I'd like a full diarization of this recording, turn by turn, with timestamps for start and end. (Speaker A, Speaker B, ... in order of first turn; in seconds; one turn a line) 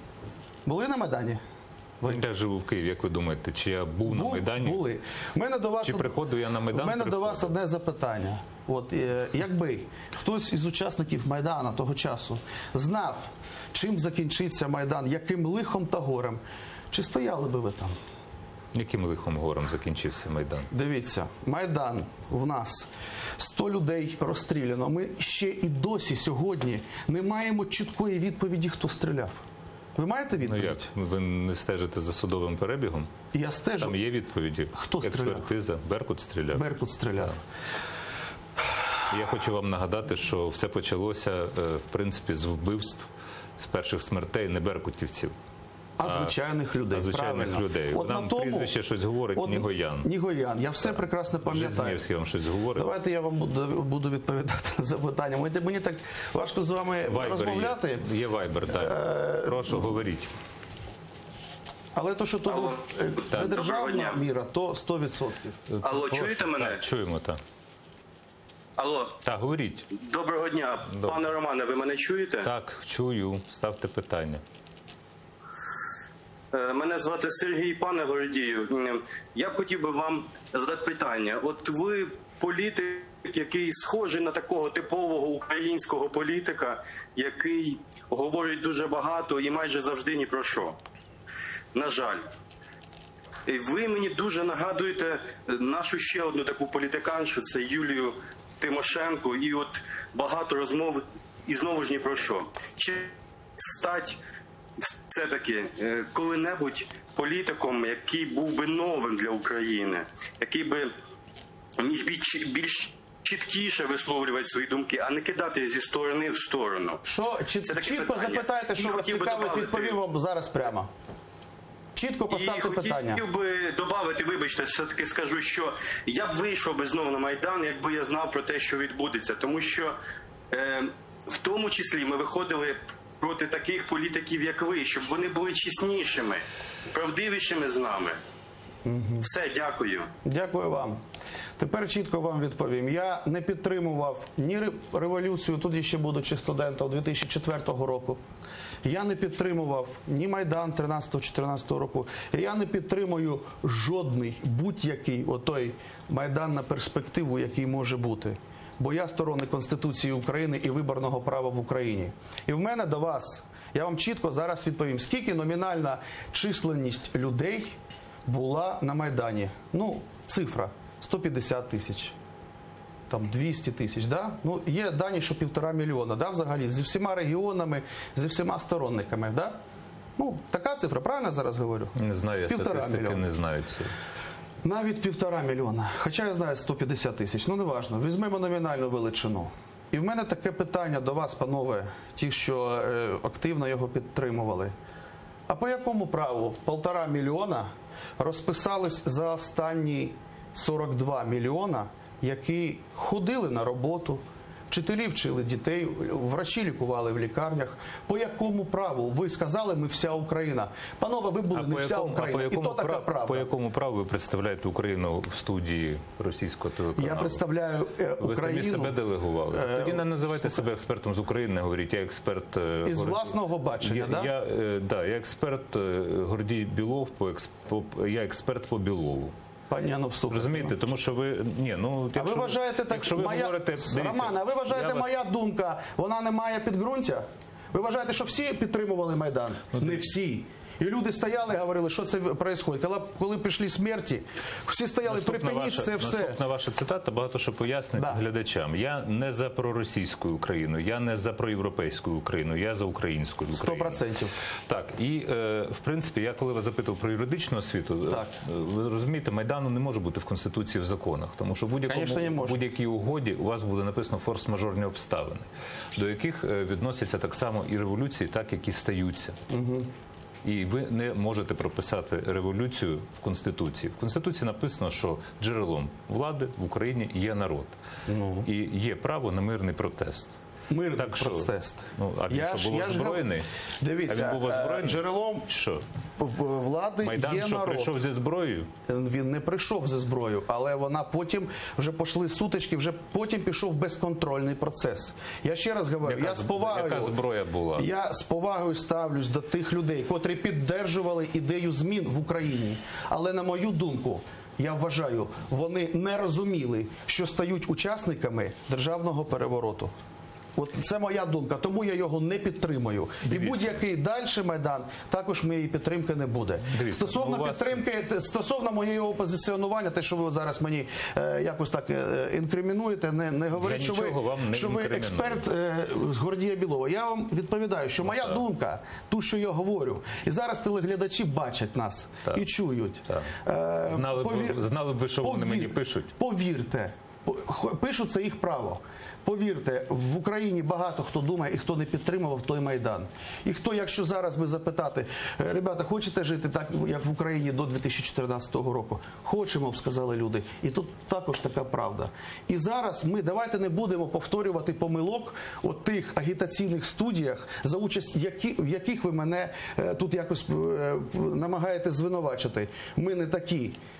Speaker A: 0.7-1.4
Speaker B: 2.1-4.8
Speaker A: 4.1-6.2
Speaker B: 5.8-7.5
Speaker A: 6.7-18.0
Speaker B: 18.7-20.7
Speaker A: 20.7-29.4
Speaker A: 30.0-30.9
Speaker B: 30.4-33.1
Speaker A: 33.3-34.0
Speaker B: 33.8-37.3
Speaker A: 34.7-35.5
Speaker A: 36.5-37.4
Speaker B: 39.1-45.4
Speaker A: 46.0-48.7
Speaker B: 46.0-46.4
Speaker B: 46.9-50.1
Speaker A: 49.3-52.0
Speaker B: 50.9-52.9
Speaker A: 52.8-58.1
Speaker B: 57.1-60.3
Speaker A: 58.7-59.9
Speaker A: 62.0-65.7
Speaker C: 62.5-62.8
Speaker C: 63.3-64.2
Speaker B: 65.7-67.4
Speaker C: 65.8-66.8
Speaker C: 68.8-69.2
Speaker B: 69.2-69.9
Speaker C: 69.9-72.5
Speaker B: 72.4-74.4
Speaker C: 76.5-90.8
Speaker C: 91.7-92.2
Speaker C: 93.5-104.2
Speaker C: 104.8-110.9
Speaker C: 111.8-117.0
Speaker A: 117.0-120.9
Speaker C: 117.7-120.0
Speaker A: 122.0-123.2
Speaker C: 122.3-130.0
Speaker C: 130.5-138.2
Speaker A: 138.8-139.3
Speaker C: 139.2-140.1
Speaker A: 140.2-141.0
Speaker A: 141.6-148.2
Speaker A: 148.8-172.2
Speaker A: 173.1-179.6
Speaker A: 180.2-182.0
Speaker B: 182.0-183.9
Speaker A: 182.5-183.2
Speaker A: 184.6-194.7
Speaker A: 195.5-213.5
Speaker B: 211.5-217.4
Speaker A: 217.0-219.0
Speaker B: 218.2-229.3
Speaker A: 219.5-220.7
Speaker A: 222.8-224.3
Speaker A: 229.7-230.8
Speaker B: 230.3-235.2
Speaker A: 232.2-246.4
Speaker B: 245.1-254.0
Speaker A: 253.5-254.4
Speaker B: 254.7-269.4
Speaker A: 258.1-258.3
Speaker A: 261.9-262.6
Speaker A: 269.5-269.9
Speaker B: 270.4-277.8
Speaker A: 278.1-278.5
Speaker B: 278.4-280.4
Speaker A: 280.7-285.5
Speaker B: 280.9-283.5
Speaker B: 284.1-285.8
Speaker A: 286.2-287.9
Speaker B: 287.0-288.7
Speaker A: 288.9-297.2
Speaker B: 296.1-297.9
Speaker A: 297.8-309.9
Speaker A: 310.6-334.6
Speaker B: 313.2-313.8
Speaker B: 316.7-317.8
Speaker B: 323.6-325.5
Speaker B: 328.0-328.4
Speaker B: 333.1-333.3
Speaker B: 333.9-336.1
Speaker A: 335.2-363.8